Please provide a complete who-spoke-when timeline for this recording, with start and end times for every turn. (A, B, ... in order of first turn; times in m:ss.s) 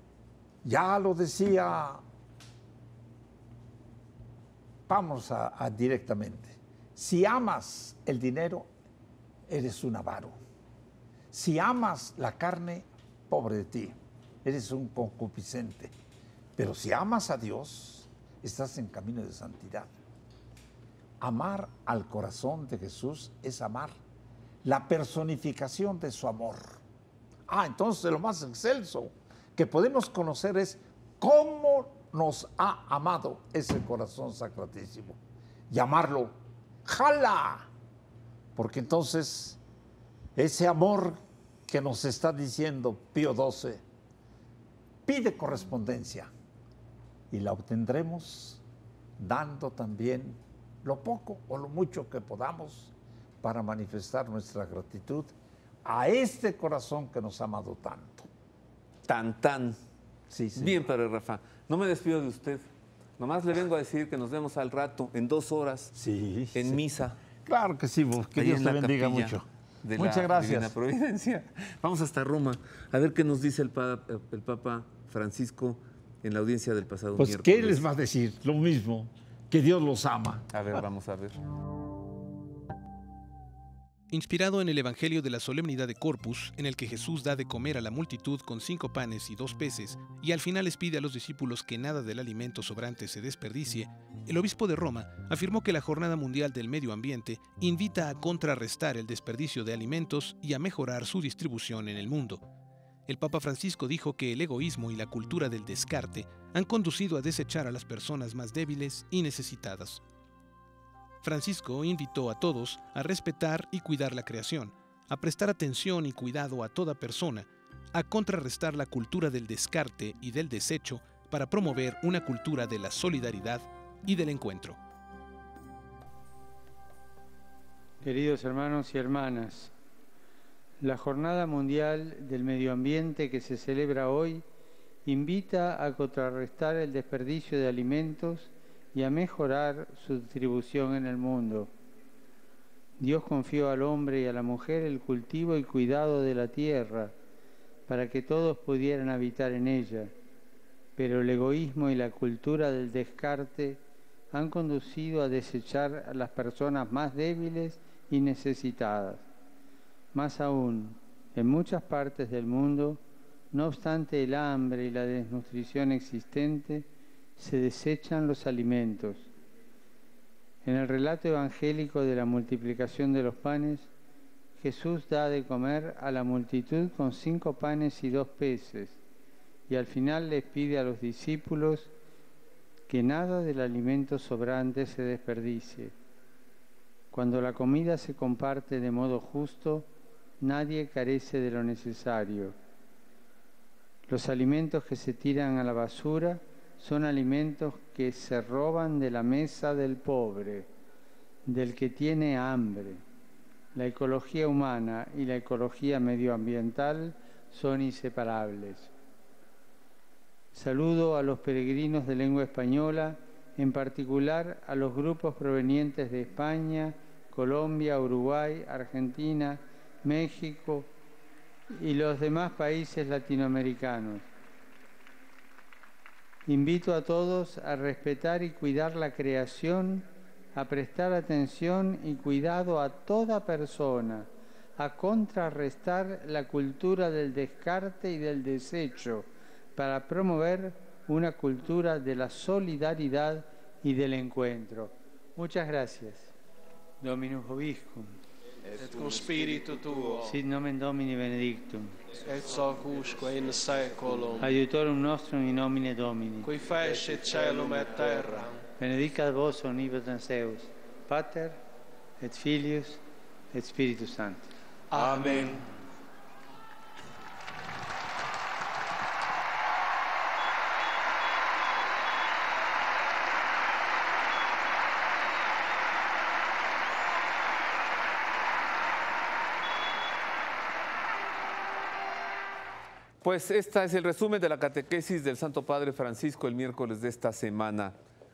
0:00.6-0:02.0 A
0:04.9-0:08.7 A
0:09.5-0:10.4 A
0:11.3-0:15.9 A
0:16.6-0:19.9 A
0:21.2-0:23.9 A
0:24.6-0:26.8 A
0:27.5-0:35.2 A
0:35.7-0:37.7 A
0:38.6-0:39.6 A
0:40.4-0:43.8 A
0:45.0-0:46.3 A
0:47.3-0:48.6 A
0:49.2-0:55.3 A
0:55.8-0:58.3 A
0:59.1-0:59.8 B
1:00.3-1:00.8 A
1:00.6-1:02.7 B
1:03.2-1:05.9 B
1:05.9-1:06.8 A
1:06.5-1:07.2 B
1:07.4-1:09.4 A
1:08.4-1:17.8 B
1:10.0-1:10.7 A
1:17.2-1:20.8 A
1:20.5-1:21.4 B
1:24.1-1:42.4 C
1:43.1-1:50.0 C
1:51.2-2:04.8 C
2:08.0-2:09.7 D
2:10.8-2:14.4 D
2:15.0-2:21.7 D
2:23.0-2:27.1 D
2:27.9-2:30.1 D
2:31.0-2:39.3 D
2:40.1-2:43.0 D
2:43.5-2:49.3 D
2:50.6-2:53.9 D
2:54.6-2:59.0 D
2:59.7-3:01.9 D
3:02.9-3:05.9 D
3:07.1-3:09.9 D
3:10.4-3:12.6 D
3:14.1-3:20.7 D
3:21.5-3:23.0 D
3:23.8-3:28.9 D
3:30.5-3:40.9 D
3:41.7-3:44.3 D
3:46.5-4:06.3 D
4:07.0-4:08.2 D
4:08.7-4:10.4 E
4:10.2-4:12.0 D
4:12.1-4:14.6 E
4:14.4-4:16.5 D
4:16.4-4:18.6 E
4:18.8-4:21.6 D
4:22.2-4:24.5 D
4:24.9-4:25.7 E
4:43.2-4:48.0 B